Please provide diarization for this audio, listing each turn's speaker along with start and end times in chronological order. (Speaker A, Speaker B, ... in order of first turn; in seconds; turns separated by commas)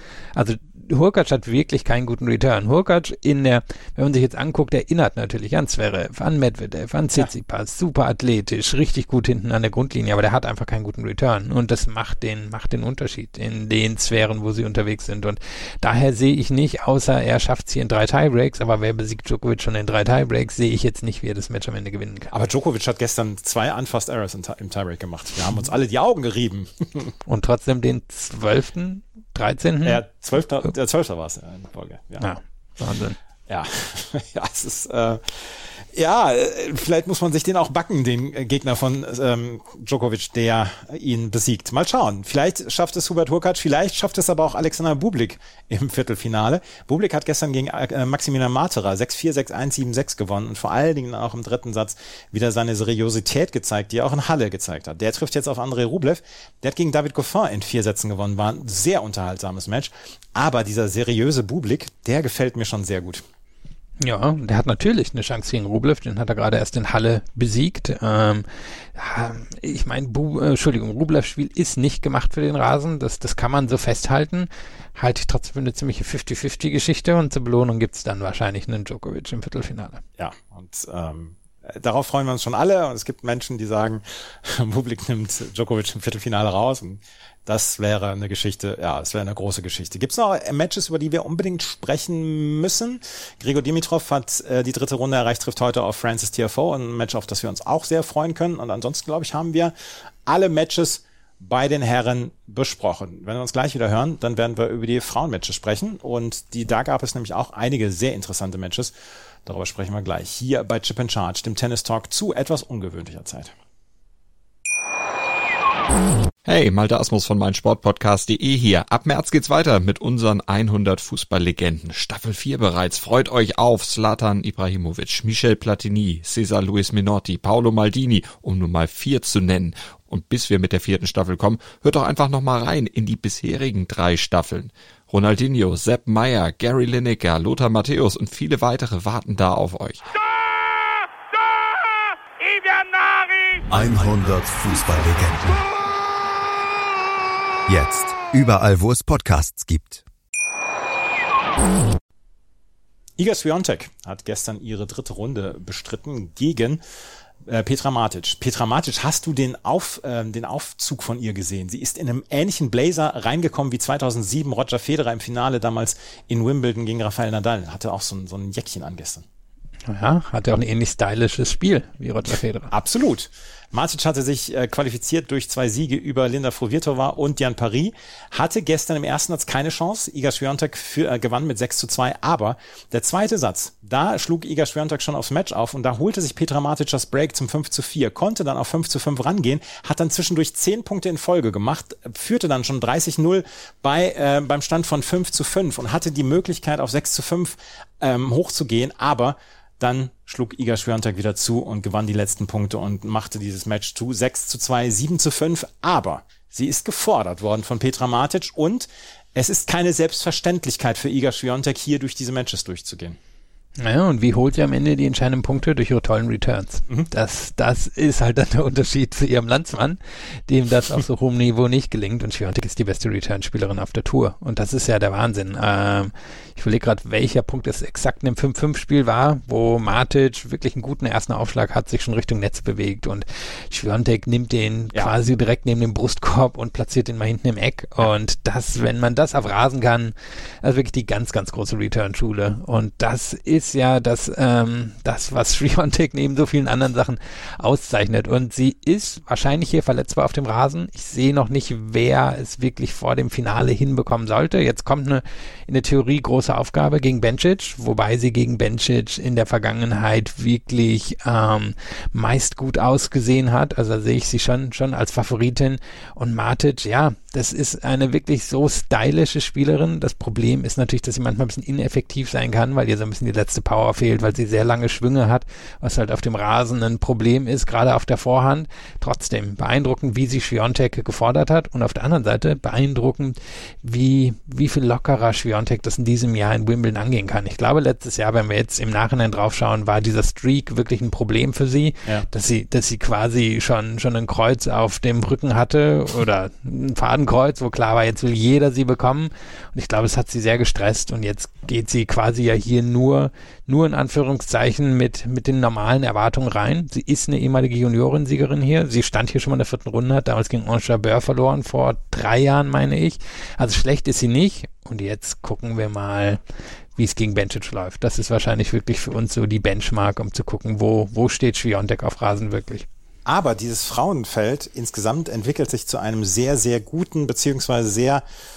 Speaker A: 0.3-22.3, Speaker B: 22.3-27.1, Speaker A: 27.2-30.0, Speaker B: 29.8-32.2, Speaker A: 32.2-33.2, Speaker B: 33.5-63.2, Speaker A: 64.0-80.0, Speaker B: 80.2-99.7, Speaker B: 100.3-113.5, Speaker C: 116.4-140.0, Speaker D: 143.7-145.6, Speaker D: 147.7-150.0, Speaker B: 153.2-156.8, Speaker B: 157.5-169.2, Speaker A: 169.9-172.7, Speaker B: 172.7-213.2, Speaker A: 213.8-316.4, Speaker A: 316.9-322.9, Speaker B: 323.2-328.2